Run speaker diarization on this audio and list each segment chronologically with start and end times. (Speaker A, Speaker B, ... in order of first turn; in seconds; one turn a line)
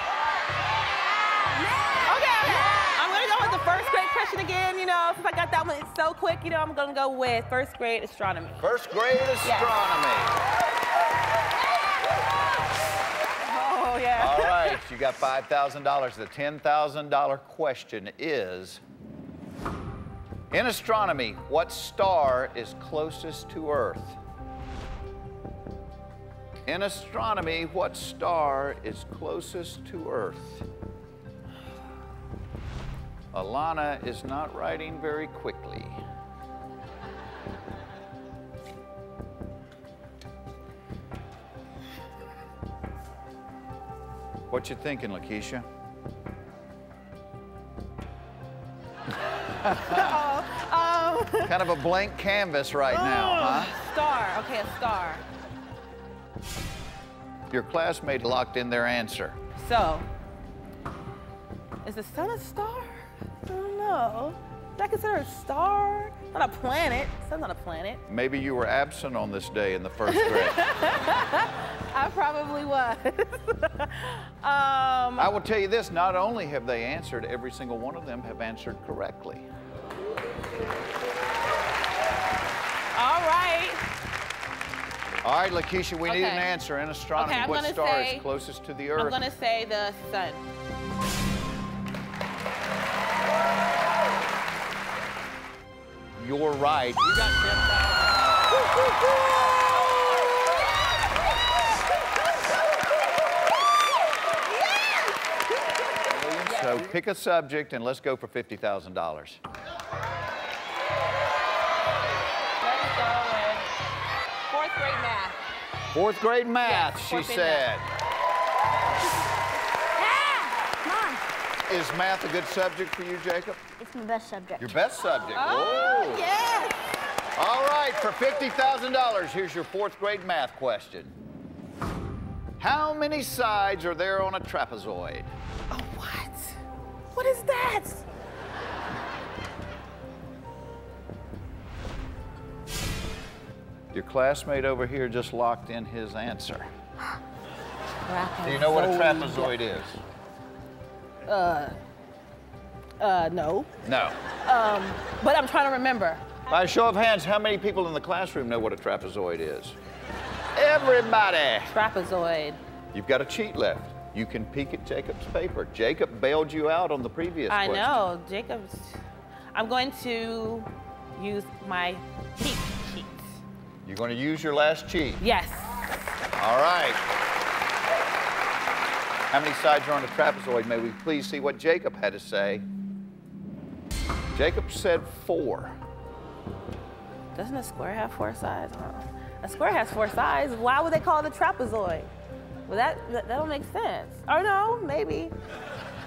Speaker A: 2.0-8.6
Speaker B: 8.6-10.4
Speaker A: 9.4-9.8
Speaker A: 13.4-14.8
Speaker B: 14.2-18.8
Speaker B: 20.5-24.2
Speaker B: 26.7-30.7
Speaker B: 33.3-36.0
Speaker B: 44.5-45.7
Speaker A: 49.7-51.7
Speaker B: 49.7-50.1
Speaker B: 51.5-53.8
Speaker A: 52.9-55.2
Speaker B: 57.5-59.4
Speaker A: 59.6-60.1
Speaker A: 61.8-68.0
Speaker B: 68.1-70.7
Speaker A: 70.1-75.3
Speaker B: 75.2-79.5
Speaker A: 83.0-83.9
Speaker B: 85.2-89.3
Speaker A: 86.0-86.5
Speaker A: 87.2-88.3
Speaker A: 89.0-90.4
Speaker B: 96.2-97.7
Speaker B: 106.1-109.4
Speaker A: 106.5-106.9
Speaker A: 112.6-113.7
Speaker A: 114.5-115.4
Speaker B: 115.9-117.9
Speaker A: 116.6-117.7
Speaker C: 120.0-121.3
Speaker B: 121.7-123.6
Speaker C: 123.8-124.6
Speaker B: 124.6-126.3
Speaker A: 125.3-126.6
Speaker C: 126.5-126.7
Speaker B: 127.4-131.2
Speaker B: 132.6-135.3
Speaker A: 135.7-136.6
Speaker A: 137.2-137.9
Speaker B: 143.9-146.7
Speaker A: 148.1-149.6
Speaker B: 148.4-150.0
Speaker A: 151.2-151.8
Speaker A: 153.0-153.7
Speaker B: 153.8-154.2
Speaker A: 154.4-156.3
Speaker B: 156.5-159.8
Speaker B: 160.6-161.7
Speaker A: 161.7-162.6
Speaker B: 162.9-168.1
Speaker A: 167.5-169.0
Speaker A: 169.5-173.4
Speaker B: 173.8-175.2
Speaker A: 175.2-176.0
Speaker B: 176.4-177.0
Speaker B: 179.3-182.6
Speaker B: 184.3-185.8
Speaker A: 187.3-192.1
Speaker A: 192.7-195.3